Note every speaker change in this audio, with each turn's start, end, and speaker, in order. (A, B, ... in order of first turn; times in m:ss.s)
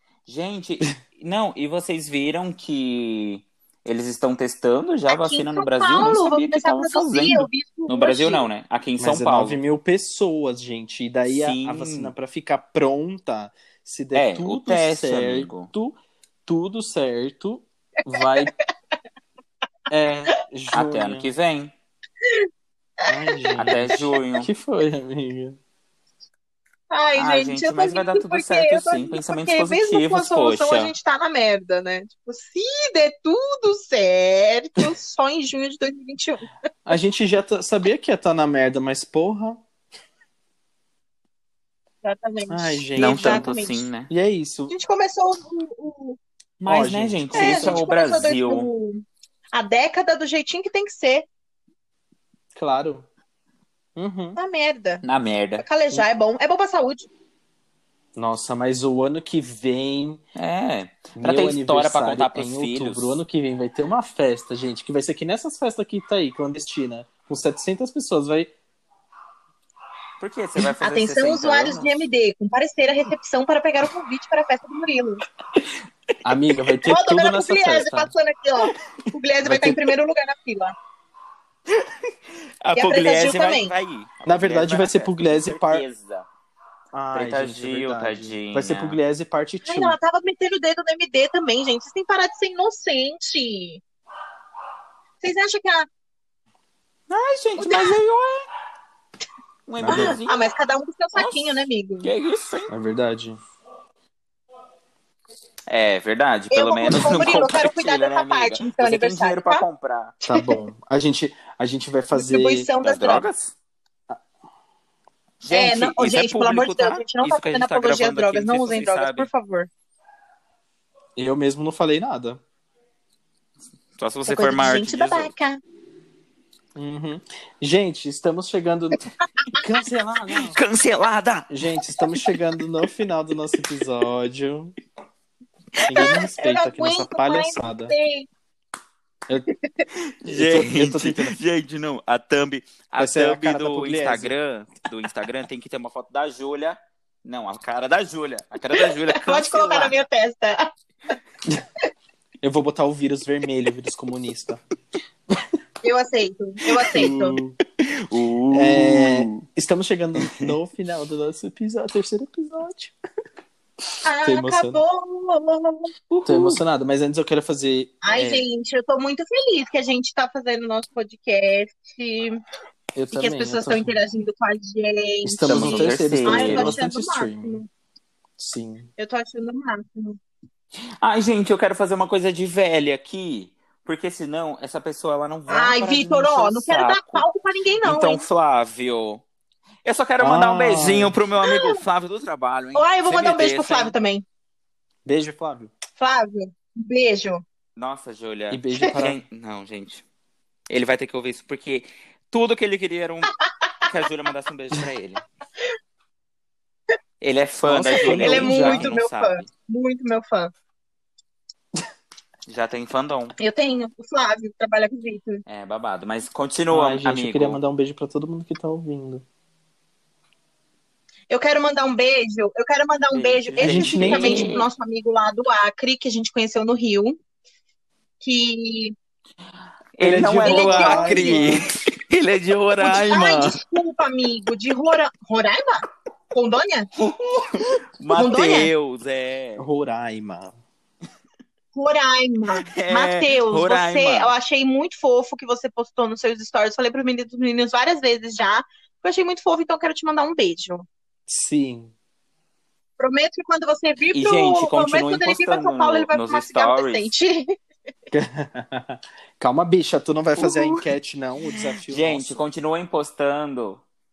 0:00.3-0:09.6 A
0:05.1-0:08.5 B
0:09.0-0:18.5 C
0:11.3-0:12.1 A
0:14.1-0:15.7 A
0:18.2-0:18.4 B
0:19.9-0:21.3 C
0:20.7-0:21.7 A
0:23.0-0:23.8 B
0:23.1-0:25.6 C
0:23.6-0:24.5 A
0:26.9-0:36.5 B
0:27.2-0:30.9 A
0:36.9-0:39.6 C
0:42.0-0:43.8 B
0:42.5-0:43.5 C
0:43.0-0:44.1 A
0:44.1-0:44.7 C
0:44.7-0:46.2 B
0:46.6-0:47.8 C
0:46.6-0:48.7 A
0:47.3-0:51.3 B
0:52.6-0:53.1 C
0:54.0-0:54.4 C
0:54.4-0:55.0 B
0:55.0-0:55.6 A
0:55.6-0:57.1 B
0:58.2-1:00.2 C
1:00.4-1:03.2 A
1:01.2-1:08.5 C
1:10.2-1:12.0 A
1:10.8-1:15.2 B
1:16.2-1:18.1 C
1:16.9-1:20.7 B
1:19.4-1:19.8 C
1:21.7-1:22.1 A
1:22.6-1:26.3 A
1:22.7-1:23.7 B
1:24.3-1:25.8 C
1:26.9-1:30.0 C
1:27.1-1:29.0 A
1:29.6-1:33.8 B
1:35.2-1:35.9 B
1:37.1-1:38.5 A
1:37.6-1:38.0 B
1:39.7-1:40.5 A
1:39.8-1:40.2 C
1:39.9-1:42.1 B
1:41.2-1:42.7 A
1:42.7-1:43.4 C
1:45.7-1:50.2 A
1:46.5-1:49.6 B
1:50.2-1:50.6 B
1:50.3-1:52.7 C
1:52.1-1:53.2 B
1:52.8-1:53.6 A
1:55.4-1:59.3 A
1:55.5-1:59.7 B
2:01.2-2:02.4 C
2:04.0-2:05.3 A
2:04.3-2:05.6 B
2:06.8-2:09.0 C
2:09.5-2:10.6 C
2:10.4-2:11.5 A
2:11.5-2:14.8 C
2:15.8-2:16.1 A
2:15.8-2:17.9 C
2:15.9-2:18.3 B
2:20.2-2:30.0 A
2:20.3-2:21.4 C
2:23.0-2:24.4 C
2:28.7-2:30.7 B
2:32.4-2:34.6 C
2:35.3-2:35.6 C
2:35.8-2:37.4 B
2:36.8-2:37.6 C
2:37.8-2:39.4 A
2:38.5-2:43.0 C
2:40.2-2:40.5 A
2:44.0-2:45.9 B
2:44.2-2:44.8 C
2:46.1-2:46.6 A
2:46.3-2:48.4 C
2:48.0-2:52.4 B
2:53.0-2:54.0 C
2:53.1-2:57.7 B
2:55.2-2:57.6 C
2:55.5-2:56.8 A
2:58.4-2:58.9 C
2:59.0-3:00.2 B
3:01.0-3:07.3 A
3:05.5-3:08.2 B
3:07.8-3:09.2 A
3:09.8-3:13.9 A
3:10.2-3:11.2 C
3:11.4-3:11.8 B
3:12.8-3:14.2 B
3:15.1-3:15.7 C
3:16.0-3:17.4 B
3:17.8-3:20.0 A
3:18.5-3:19.2 C
3:20.7-3:23.3 A
3:23.8-3:25.2 A
3:27.2-3:29.5 A
3:27.6-3:29.0 C
3:27.9-3:30.5 B
3:32.5-3:33.4 A
3:33.4-3:35.4 B
3:35.5-3:37.6 A
3:36.7-3:39.2 C
3:41.3-3:47.2 B
3:43.1-3:44.7 A
3:43.6-3:44.6 C
3:48.2-3:49.0 B
3:50.0-3:53.6 A
3:50.0-3:51.6 C
3:50.4-3:51.5 B
3:52.8-3:56.9 B
3:57.0-3:59.7 A
3:58.1-3:58.7 B
3:59.6-4:00.6 C
4:01.7-4:10.9 B
4:02.5-4:04.3 A
4:11.3-4:11.9 C
4:13.0-4:17.6 B
4:14.1-4:17.1 A
4:18.1-4:22.4 C
4:20.4-4:20.9 A
4:21.4-4:23.8 A